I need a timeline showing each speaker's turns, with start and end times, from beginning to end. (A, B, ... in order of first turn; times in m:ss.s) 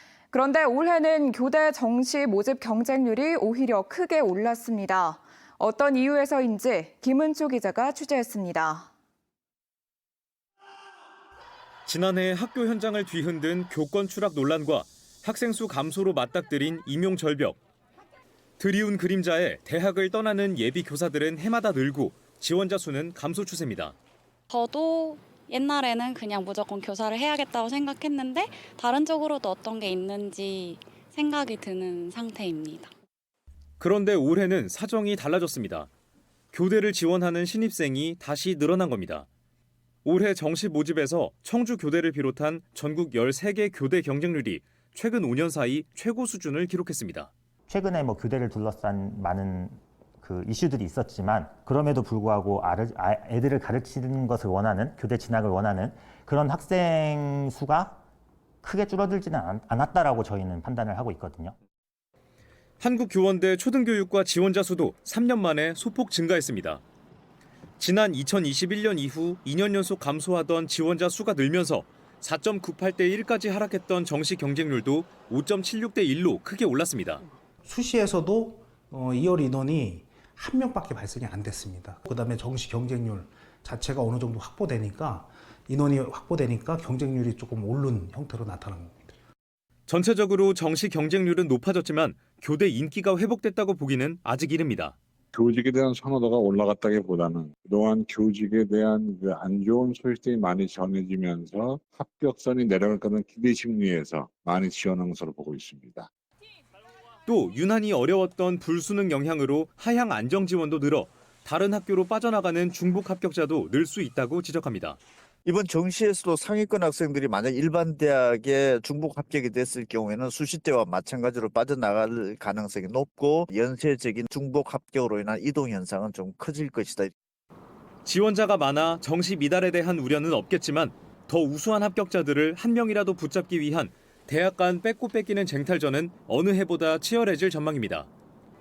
0:00.3-0:08.9 A
0:11.8-0:17.6 B
0:18.6-0:24.0 B
0:24.5-0:32.9 C
0:33.8-0:35.9 B
0:36.5-0:39.3 B
0:40.0-0:47.3 B
0:47.7-0:58.0 D
0:58.6-1:01.5 D
1:02.8-1:06.8 B
1:07.8-1:17.2 B
1:17.6-1:29.1 E
1:29.9-1:34.9 B
1:35.3-1:46.1 F
1:47.2-1:55.0 B
1:55.4-2:07.1 G
2:08.0-2:18.1 B